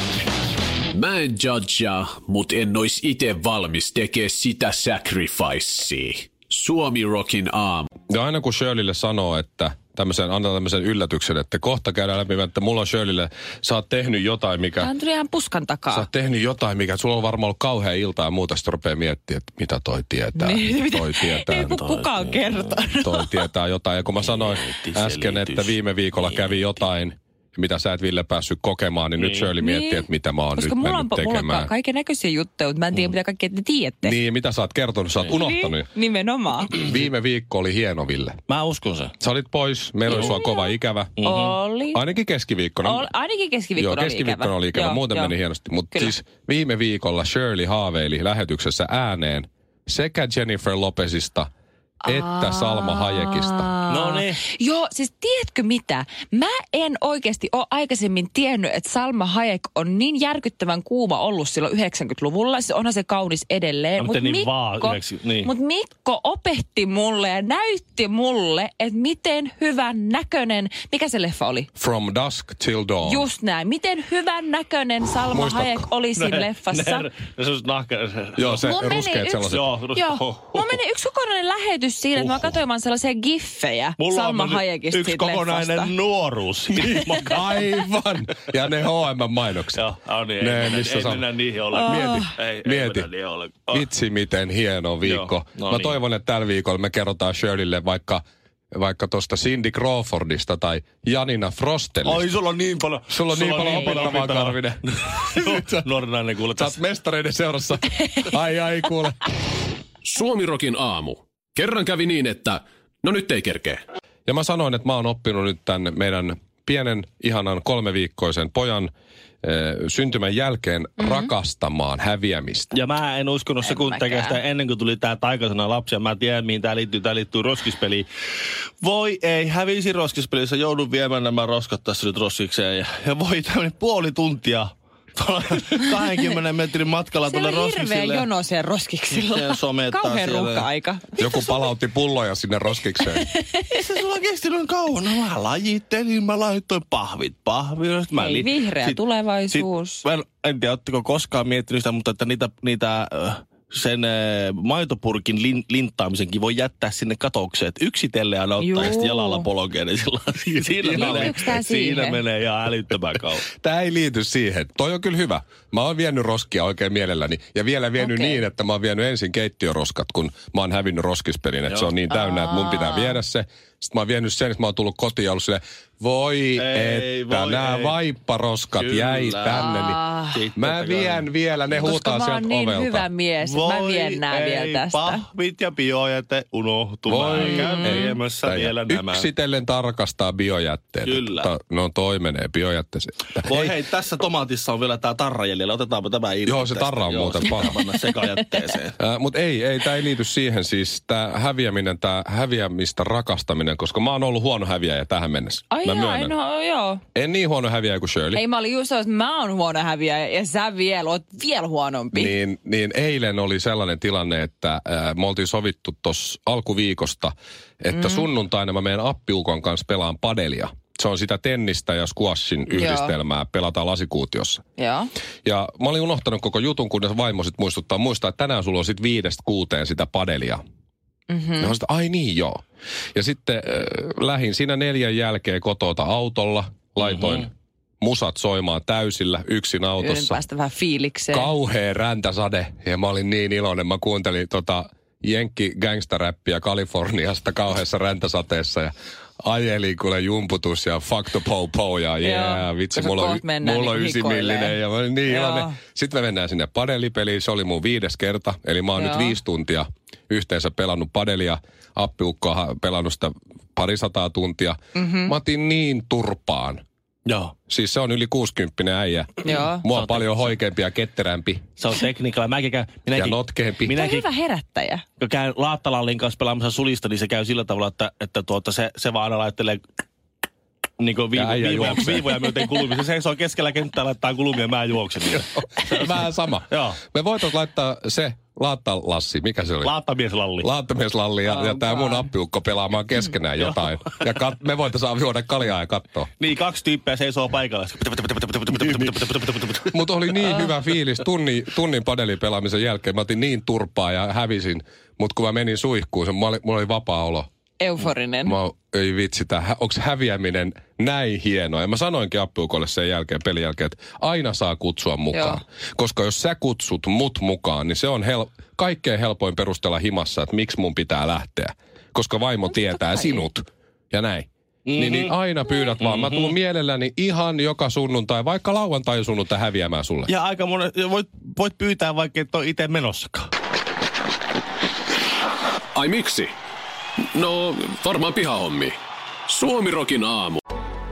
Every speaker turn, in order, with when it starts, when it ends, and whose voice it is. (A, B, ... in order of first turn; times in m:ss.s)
0:00.9-0:07.9 A
0:08.1-0:14.9 B
0:14.8-0:16.1 C
0:15.9-0:21.8 B
0:20.3-0:23.4 C
0:21.7-0:22.4 D
0:23.0-0:31.7 B
0:24.2-0:26.7 D
0:29.2-0:29.5 D
0:29.6-0:34.2 C
0:34.0-0:35.9 B
0:35.3-0:36.8 C
0:36.7-0:38.4 B
0:38.5-0:39.1 D
0:39.2-0:41.3 B
0:40.1-0:42.0 C
0:40.1-0:40.4 D
0:41.2-0:41.6 D
0:41.9-0:43.1 B
0:42.8-0:45.3 C
0:43.8-0:51.5 B
0:45.9-0:46.2 C
0:52.0-1:11.7 C
0:52.0-0:53.7 B
0:53.9-0:54.4 D
1:04.0-1:05.5 D
1:11.8-1:13.3 B
1:13.0-1:17.1 C
1:15.3-1:15.9 B
1:16.1-1:18.7 D
1:18.4-1:19.6 B
1:18.6-1:25.9 C
1:19.4-1:20.8 D
1:22.1-1:22.6 D
1:24.0-1:27.7 D
1:26.8-1:29.8 B
1:29.7-1:33.8 D
1:30.4-1:31.3 B
1:31.7-1:32.3 C
1:31.8-1:33.1 B
1:33.7-1:42.3 B
1:35.0-1:36.0 D
1:42.0-1:46.8 D
1:43.1-1:44.8 B
1:45.3-1:45.8 B
1:46.6-1:49.2 B
1:50.1-1:53.8 A
1:54.3-1:58.9 B
1:59.4-2:02.7 B
2:01.0-2:01.3 C
2:02.7-2:08.0 D
2:03.6-2:04.4 C
2:08.8-2:18.3 D
2:17.2-2:21.5 C
2:19.1-2:20.7 D
2:21.2-2:23.3 B
2:23.0-2:23.8 C
2:23.7-2:43.4 D
2:28.1-2:30.0 C
2:38.6-2:39.5 C
2:40.8-2:41.4 B
2:40.9-2:42.2 C
2:43.6-3:00.0 B
2:48.0-2:48.4 C
2:51.7-2:51.9 D
2:52.1-2:53.2 C
2:56.6-2:58.0 D
2:58.7-2:59.7 D
2:59.5-3:00.4 C
3:00.3-3:01.3 D
3:00.6-3:03.1 B
3:01.8-3:05.2 C
3:03.4-3:09.3 D
3:07.1-3:13.7 B
3:07.4-3:08.2 C
3:11.0-3:11.5 D
3:13.4-3:19.0 D
3:16.4-3:17.8 B
3:19.0-3:26.3 B
3:25.7-3:27.0 C
3:27.1-3:28.4 B
3:28.3-3:32.3 C
3:32.1-3:44.6 B
3:37.9-3:38.3 C
3:42.7-3:43.2 C
3:44.8-3:45.1 C
3:45.4-3:50.6 B
3:51.3-3:51.7 C
3:51.6-3:52.6 B
3:53.1-4:00.4 B
4:00.0-4:01.5 C
4:01.3-4:26.8 B
4:12.2-4:15.8 C
4:19.0-4:19.4 C
4:24.9-4:25.3 C
4:27.2-4:27.5 D
4:27.7-4:31.6 B
4:29.4-4:29.8 C
4:29.9-4:30.5 D
4:31.8-4:34.2 D
4:33.1-4:34.0 B
4:33.9-4:35.0 C
4:35.2-4:39.8 D
4:41.0-4:46.2 D
4:41.3-4:42.3 B
4:45.8-4:49.9 B
4:46.7-4:47.0 D
4:49.8-4:50.7 D
4:50.6-4:56.3 B
4:51.5-4:52.3 C
4:56.4-4:59.9 D
4:58.7-5:07.5 B
5:07.8-5:08.5 C
5:08.4-5:30.3 B
5:15.3-5:15.6 C
5:22.9-5:23.4 C
5:24.8-5:25.3 D
5:26.0-5:26.5 D
5:30.3-5:33.5 D
5:35.9-5:36.5 A
5:37.3-5:39.0 A
5:39.5-5:40.6 A